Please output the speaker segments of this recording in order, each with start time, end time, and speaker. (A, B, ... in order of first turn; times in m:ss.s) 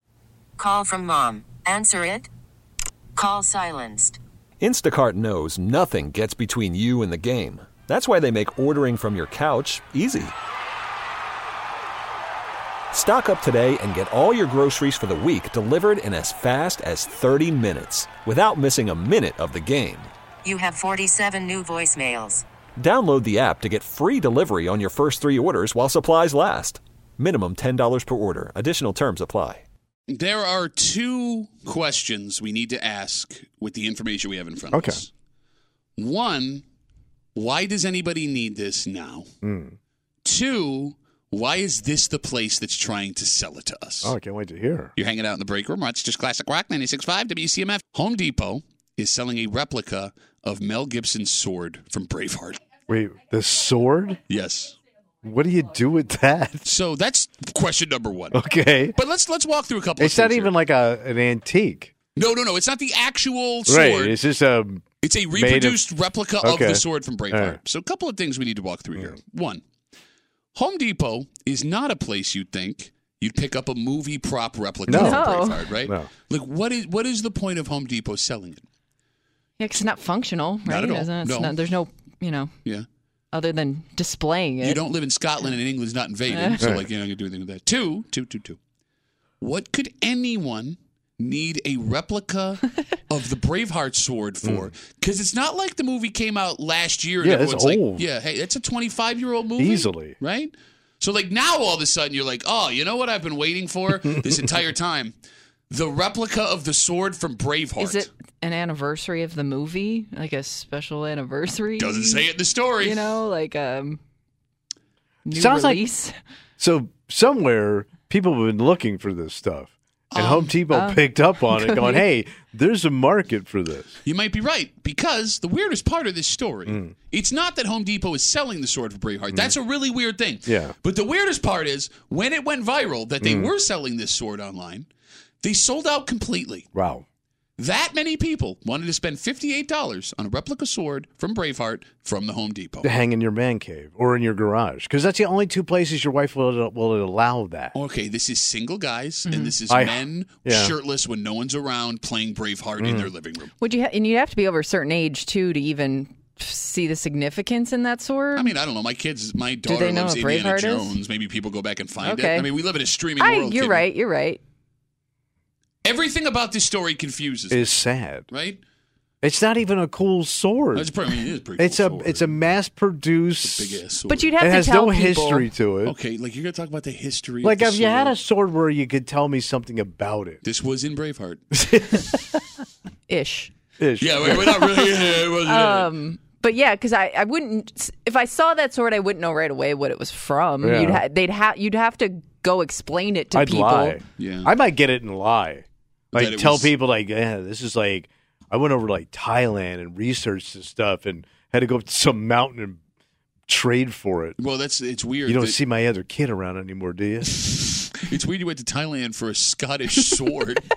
0:00.6-0:02.3 A
0:03.2-0:04.2 A
0:04.6-0:10.3 B
0:12.9-0:20.1 B
0:20.4-0:22.4 A
0:22.8-0:29.6 B
0:30.1-0:35.1 C
0:34.7-0:35.0 D
0:36.0-0:36.6 C
0:37.3-0:39.3 C
0:39.4-0:39.8 D
0:40.2-0:44.1 C
0:44.0-0:44.9 D
0:45.0-0:52.6 C
0:52.9-0:54.2 D
0:54.3-0:54.8 C
0:55.2-0:56.6 D
0:56.6-0:58.4 C
0:58.3-0:59.0 D
0:58.9-1:00.5 C
1:00.0-1:01.9 D
1:02.2-1:04.2 C
1:03.7-1:05.8 D
1:05.0-1:09.6 C
1:06.4-1:07.6 D
1:10.5-1:18.6 C
1:14.9-1:15.2 D
1:14.9-1:15.7 E
1:15.8-1:16.1 D
1:19.6-1:22.5 E
1:20.7-1:21.6 C
1:23.3-1:24.8 E
1:24.6-1:28.6 C
1:26.3-1:26.6 E
1:29.4-1:45.1 C
1:34.4-1:34.7 D
1:37.2-1:38.0 D
1:39.6-1:40.2 D
1:45.7-1:48.1 C
1:47.8-1:54.0 E
1:51.8-1:53.1 C
1:55.2-1:56.1 E
1:55.3-1:55.8 D
1:56.6-2:03.9 D
2:00.1-2:00.5 C
2:00.7-2:02.0 E
2:04.0-2:14.9 C
2:06.6-2:06.9 D
2:10.4-2:10.7 D
2:13.2-2:13.5 D
2:15.4-2:16.6 C
2:16.7-2:17.0 D
2:17.6-2:22.9 C
2:22.8-2:27.7 D
2:27.7-2:33.5 C
2:29.3-2:29.5 E
2:29.7-2:30.7 D
2:32.8-2:33.1 D
2:33.6-2:38.5 E
2:38.3-2:43.8 C
2:39.6-2:41.0 E
2:42.0-2:42.5 E
2:43.2-2:44.4 E
2:45.8-2:48.6 C
2:47.5-2:48.2 D
2:49.2-2:51.0 D
2:50.7-2:52.4 C
2:51.6-2:53.8 D
2:53.4-2:54.4 C
2:54.1-2:55.5 E
2:54.4-2:55.9 D
2:55.8-2:58.2 C
2:57.4-3:00.4 D
3:00.4-3:01.6 C
3:01.5-3:02.2 D
3:03.1-3:03.5 E
3:03.8-3:04.6 D
3:04.0-3:05.9 C
3:04.5-3:14.0 E
3:10.6-3:11.0 D
3:13.3-3:22.8 D
3:14.2-3:14.5 C
3:16.1-3:16.7 C
3:23.5-3:24.4 D
3:24.4-3:25.6 C
3:25.2-3:27.7 D
3:27.5-3:30.7 C